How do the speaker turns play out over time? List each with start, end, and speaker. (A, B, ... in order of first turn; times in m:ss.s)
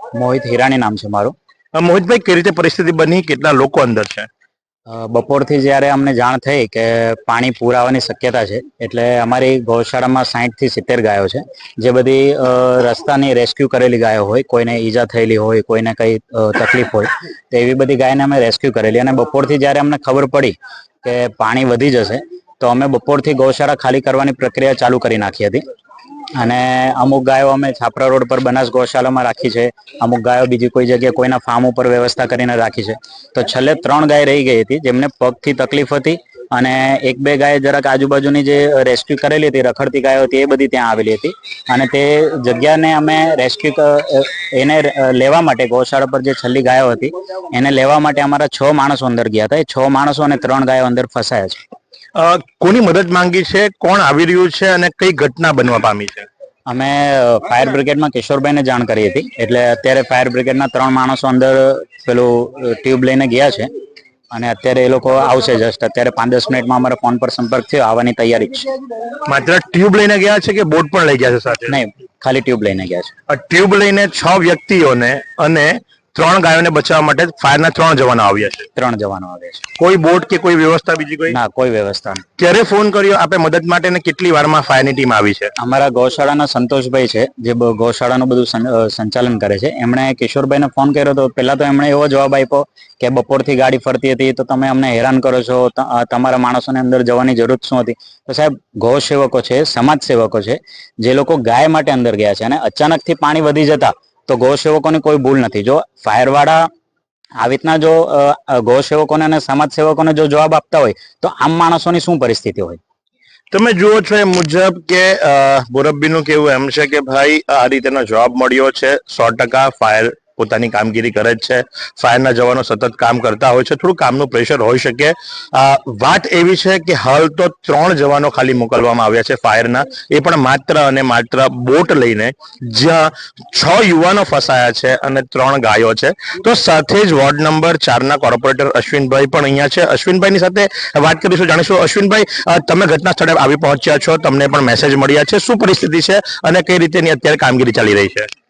0:00.2-0:01.4 A
0:01.8-0:04.3 B
0:04.9-0:25.6 A
0:26.4-0:51.6 A
0:52.2-0:56.3 B
0:56.7-1:03.7 A
1:04.3-1:08.7 A
1:09.3-1:11.8 B
1:11.7-1:13.1 A
1:13.3-1:18.7 B
1:18.8-1:19.6 A
1:19.8-1:21.4 B
1:21.3-1:22.2 A
1:22.4-1:25.5 B
1:25.6-1:46.7 A
1:47.4-1:52.8 A
1:53.5-2:28.3 B